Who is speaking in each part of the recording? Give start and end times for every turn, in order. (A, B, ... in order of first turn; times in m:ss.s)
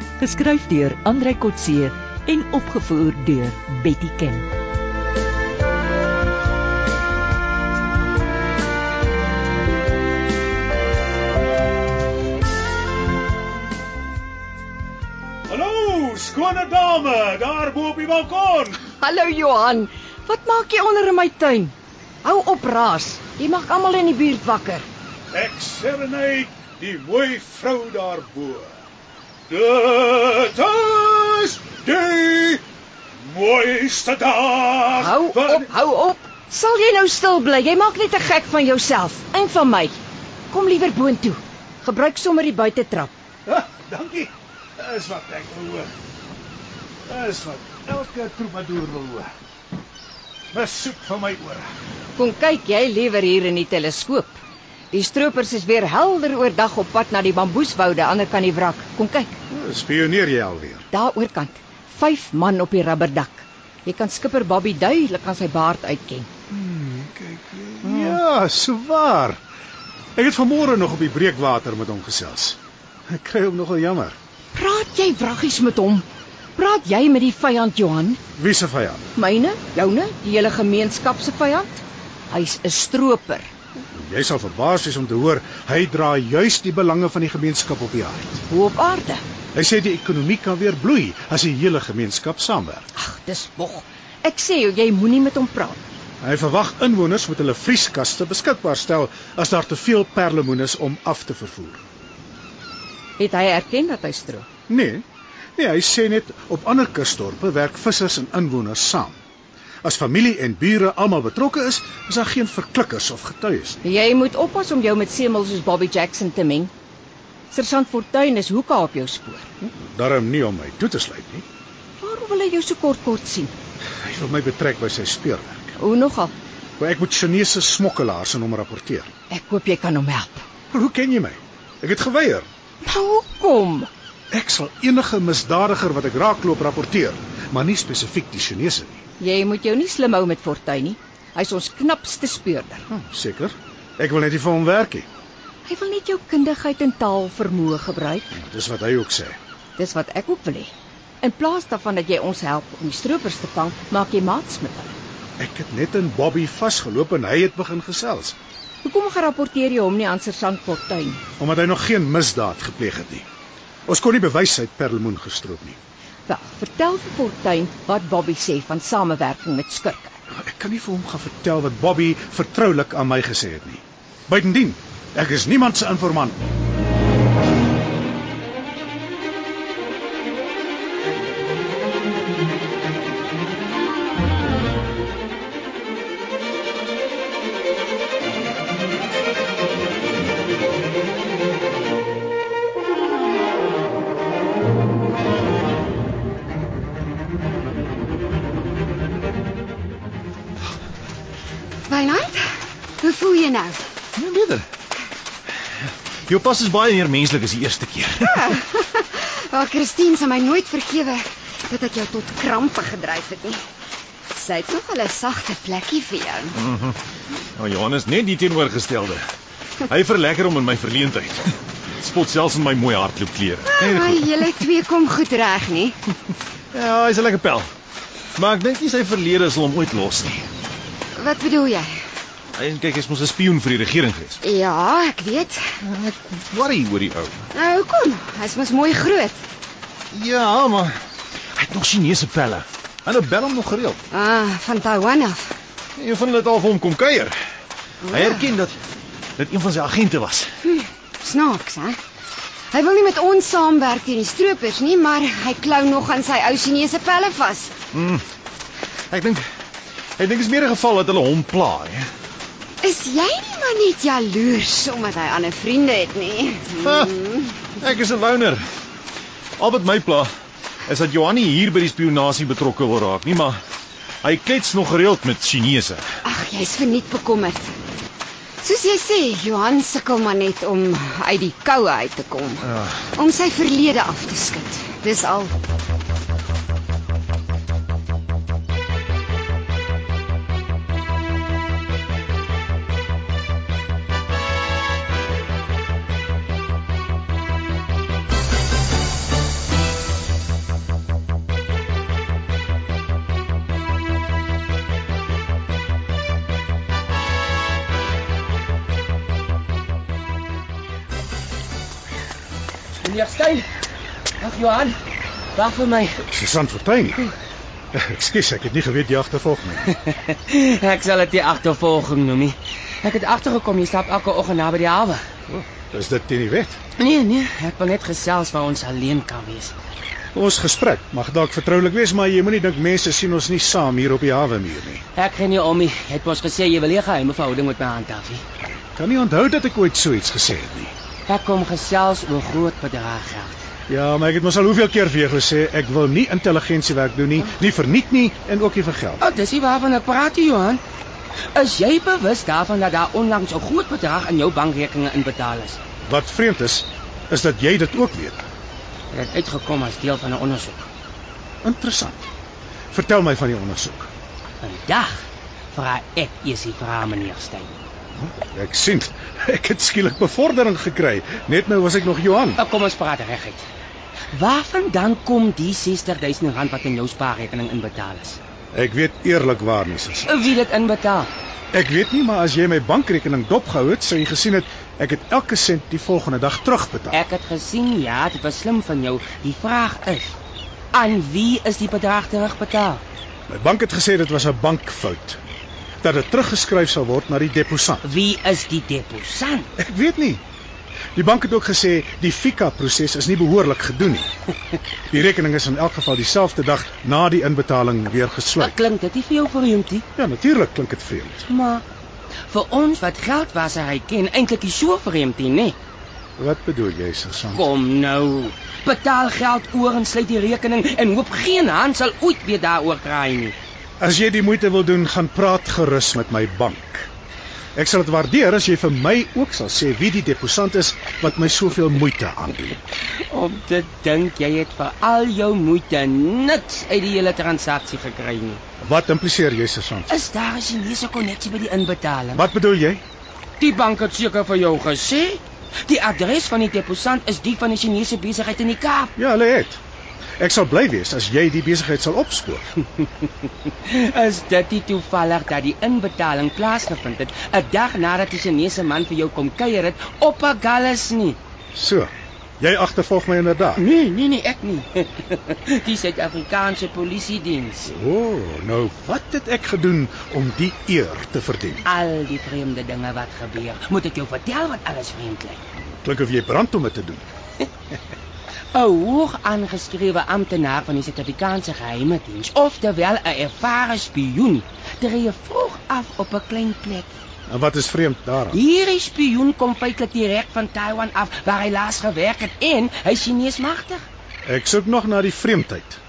0:00.7-0:01.9 A
0:01.4-0:01.9 B
0:02.8-0:04.4 A
0:03.0-0:03.3 B
0:15.5-0:18.8 C
0:18.9-0:24.9 B
0:25.3-0:28.8 C
0:29.5-0:32.6 C
0:33.2-0:35.7 C
0:34.9-0:40.0 B
0:40.5-0:43.1 B
0:43.5-0:45.9 C
0:47.1-0:49.3 C
0:50.5-0:51.7 C
0:52.2-0:54.4 B
0:54.9-0:59.4 B
0:59.5-1:00.9 C
1:00.9-1:06.3 B
1:06.5-1:09.4 C
1:10.2-1:14.2 C
1:14.5-1:16.0 B
1:16.6-1:18.2 B
1:18.4-1:19.1 C
1:19.2-1:23.5 B
1:23.9-1:28.4 C
1:28.5-1:29.2 B
1:29.5-1:32.9 C
1:33.0-1:35.8 B
1:36.2-1:41.8 C
1:43.2-1:44.5 B
1:44.7-1:45.0 C
1:45.6-1:49.2 C
1:49.8-1:53.8 C
1:53.8-1:56.7 B
1:57.5-1:59.5 B
1:59.6-2:01.4 C
2:02.0-2:03.5 B
2:04.0-2:05.8 C
2:05.8-2:06.3 B
2:06.8-2:09.1 C
2:09.3-2:10.5 B
2:10.7-2:12.5 C
2:12.8-2:13.9 B
2:14.3-2:19.0 C
2:19.2-2:22.8 B
2:22.9-2:25.1 C
2:25.6-2:28.3 B
2:28.3-2:29.4 C
2:29.8-2:35.0 B
2:35.4-2:38.4 C
2:38.8-2:41.2 B
2:41.4-2:43.3 C
2:43.9-2:45.8 C
2:46.3-2:50.2 B
2:50.3-2:56.4 C
3:21.9-3:23.8 D
3:24.2-3:24.7 E
3:26.3-3:28.4 E
3:28.2-3:33.6 D
3:34.3-3:36.6 D
3:36.6-3:37.0 E
3:37.6-3:39.2 E
3:39.9-3:44.3 E
3:43.6-3:46.0 D
3:46.7-3:47.7 E
3:48.4-3:50.5 E
3:51.2-3:52.0 D
3:52.5-3:54.4 E
3:54.4-3:55.8 D
3:55.8-3:57.5 E
3:57.5-3:59.4 D
4:00.1-4:01.0 E
4:01.6-4:04.0 E
4:04.1-4:05.6 D
4:06.0-4:07.4 E
4:08.0-4:08.5 D
4:08.1-4:08.8 E
4:09.4-4:10.5 E
4:10.7-4:12.0 D
4:12.7-4:17.8 D
4:17.9-4:18.2 E
4:19.1-4:19.5 E
4:20.2-4:22.1 E
4:22.8-4:27.6 D
4:26.8-4:27.1 E
4:27.8-4:28.6 E
4:29.6-4:30.3 E
4:30.9-4:33.6 E
4:34.2-4:36.0 E
4:36.2-4:37.7 D
4:38.6-4:45.5 D
5:13.0-5:13.7 F
5:14.4-5:15.0 F
5:15.6-5:16.2 F
5:16.3-5:17.2 C
5:17.9-5:19.9 C
5:19.9-5:25.2 F
5:25.5-5:26.8 C
5:27.0-5:29.7 F
5:30.3-5:35.0 C
5:35.2-5:38.4 F
5:38.8-5:40.9 C
5:41.3-5:43.6 F
5:43.9-5:49.2 C
5:49.2-5:50.8 F
5:51.5-5:55.8 F
5:56.1-5:58.5 C
5:59.1-6:00.9 F
6:01.6-6:02.2 C
6:02.9-6:04.1 C
6:04.6-6:05.1 F
6:05.7-6:07.7 F
6:08.2-6:12.6 C
6:12.6-6:13.7 F
6:14.3-6:18.4 F
6:18.7-6:20.5 C
6:20.3-6:21.3 F
6:21.7-6:27.2 C
6:27.1-6:30.4 F
6:30.9-6:33.0 F
6:33.5-6:35.4 C
6:36.0-6:38.0 C
6:38.0-6:39.7 F
6:39.8-6:40.4 C
6:41.2-6:44.3 C
6:45.1-6:48.7 C
6:48.6-6:50.0 F
6:50.2-6:51.4 C
6:51.5-6:51.8 F
6:52.5-6:55.8 F
6:56.4-6:57.7 C
6:57.5-7:03.6 F
7:04.0-7:07.1 C
7:07.8-7:12.8 C
7:13.3-7:18.6 F
7:18.8-7:20.2 C
7:20.1-7:22.4 F
7:22.3-7:23.0 C
7:23.6-7:29.1 F
7:29.2-7:29.8 C
7:30.4-7:32.6 C
7:33.8-7:41.4 F
7:41.7-7:43.8 C
7:43.8-7:47.9 F
7:47.9-7:51.8 C
7:51.8-7:55.6 F
7:55.9-7:57.2 C
7:58.7-8:07.2 F
8:07.5-8:08.6 C
8:08.5-8:14.0 F
8:14.4-8:16.0 C